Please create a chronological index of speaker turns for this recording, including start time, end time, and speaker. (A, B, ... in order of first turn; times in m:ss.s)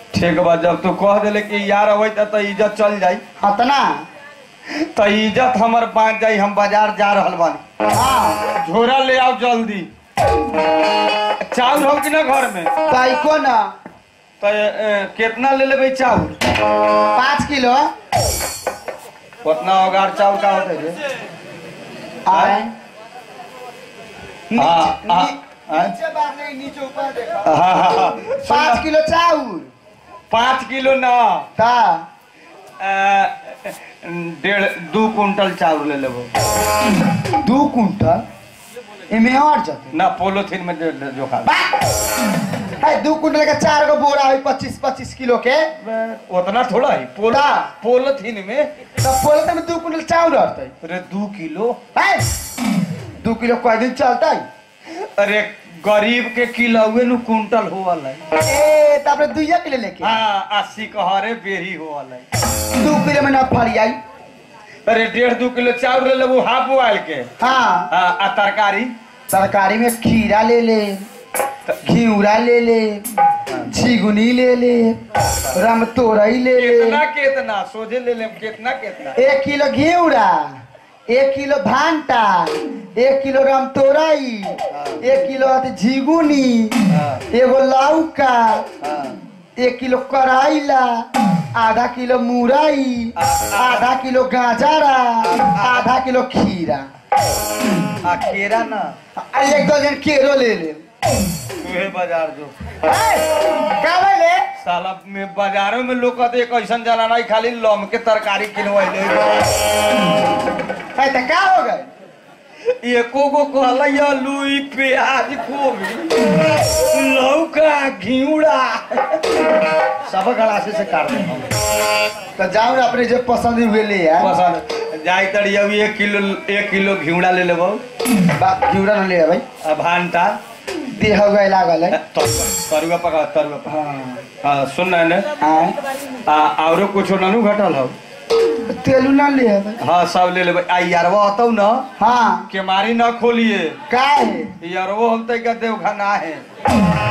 0:00.1-0:03.2 A
0:03.4-0:04.0 B
0:04.7-0:07.6 A
0:07.9-0:08.4 B
0:08.5-0:09.9 A
0:11.4-0:12.7 A
0:12.9-0:13.7 B
0:14.4-0:16.4 A
0:17.1-0:17.9 B
0:19.4-0:21.0 A
0:22.2-0:22.7 B
0:22.3-0:22.6 A
0:24.5-0:27.5 B
0:24.6-0:25.9 A
0:27.4-0:28.8 A
0:28.4-0:29.7 B
0:30.3-0:31.5 A
0:31.6-0:32.1 B
0:32.8-0:36.3 A
0:37.4-0:38.2 B
0:39.1-0:39.9 B
0:39.9-0:41.5 A
0:41.4-0:41.7 B
0:42.8-0:45.7 B
0:45.8-0:48.7 A
0:47.3-0:47.7 B
0:49.0-0:50.7 B
0:50.8-0:51.8 A
0:51.9-0:52.3 B
0:53.2-0:54.4 B
0:55.0-0:58.2 A
0:58.4-1:00.2 B
1:00.0-1:02.3 A
1:02.8-1:04.0 B
1:04.8-1:07.3 A
1:07.4-1:07.9 B
1:07.9-1:08.9 A
1:09.3-1:11.1 B
1:11.8-1:13.0 B
1:13.7-1:15.0 B
1:15.5-1:17.0 B
1:16.5-1:19.2 A
1:19.2-1:26.8 B
1:24.7-1:25.1 A
1:26.9-1:27.2 A
1:27.3-1:28.6 B
1:28.8-1:29.2 A
1:29.6-1:36.9 B
1:33.2-1:33.9 A
1:35.2-1:35.9 A
1:38.0-1:38.9 A
1:39.2-1:40.8 B
1:41.6-1:42.5 A
1:42.8-1:44.4 B
1:44.6-1:49.5 A
1:51.0-1:51.9 B
1:52.8-1:59.2 A
2:00.0-2:01.5 A
2:02.4-2:04.3 B
2:04.2-2:07.8 A
2:08.3-2:09.4 B
2:09.6-2:10.4 A
2:10.9-2:12.0 B
2:11.9-2:13.7 A
2:13.7-2:14.2 B
2:14.4-2:15.3 A
2:15.4-2:15.8 B
2:16.2-2:18.0 A
2:18.6-2:19.8 B
2:19.8-2:21.8 A
2:22.0-2:22.5 B
2:22.5-2:23.8 A
2:23.9-2:24.5 B
2:24.6-2:26.4 A